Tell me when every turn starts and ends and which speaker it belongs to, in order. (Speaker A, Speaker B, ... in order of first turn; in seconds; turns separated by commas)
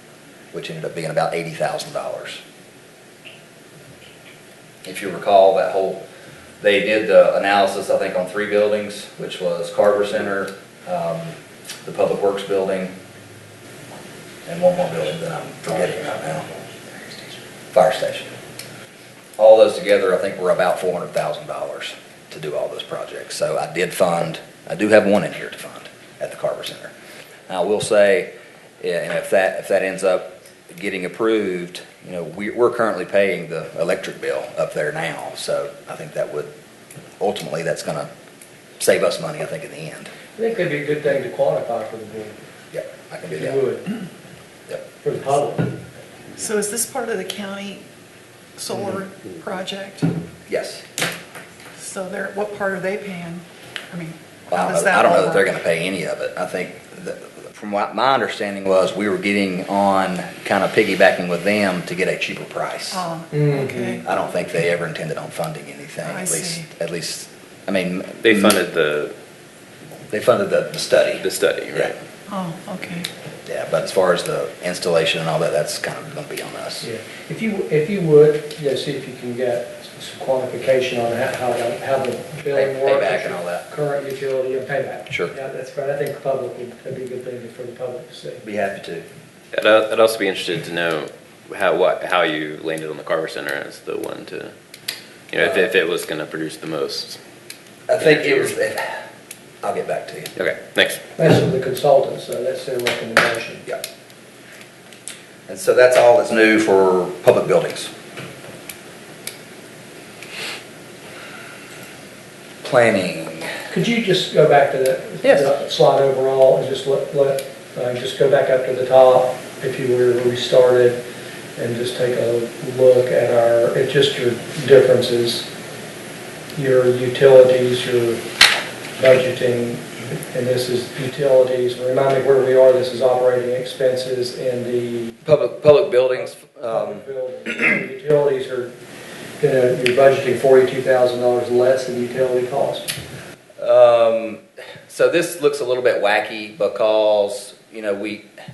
Speaker A: 0.5-2.4, Speaker A: 4.8-6.0, Speaker A: 6.6-12.9, Speaker A: 14.4-16.5, Speaker A: 17.7-18.3, Speaker A: 19.4-26.9, Speaker A: 27.5-36.5, Speaker A: 37.2-38.1, Speaker A: 38.8-40.1, Speaker B: 40.4-42.3, Speaker A: 42.7-43.6, Speaker B: 43.3-43.8, Speaker B: 45.0-45.8, Speaker C: 46.3-47.8, Speaker C: 48.6-50.1, Speaker A: 50.5-50.8, Speaker C: 51.8-55.5, Speaker A: 54.5-63.0, Speaker C: 62.9-64.0, Speaker B: 63.3-64.0, Speaker A: 64.0-68.6, Speaker C: 66.0-66.7, Speaker D: 68.2-69.1, Speaker A: 70.1-71.9, Speaker D: 71.2-72.0, Speaker C: 72.3-73.1, Speaker A: 73.5-76.9, Speaker B: 76.8-88.4, Speaker A: 82.5-83.7, Speaker A: 88.4-89.0, Speaker D: 89.5-94.5, Speaker D: 95.3-97.2, Speaker A: 97.9-99.0, Speaker D: 98.0-98.5, Speaker A: 99.6-100.4, Speaker D: 100.3-101.0, Speaker B: 101.2-103.6, Speaker A: 105.5-107.9, Speaker A: 112.6-113.5, Speaker B: 113.7-121.0, Speaker A: 115.2-115.5, Speaker B: 121.6-125.5, Speaker B: 126.5-128.2, Speaker B: 129.0-135.1, Speaker A: 135.2-137.0, Speaker B: 136.1-138.7, Speaker B: 139.4-142.9, Speaker A: 143.6-148.3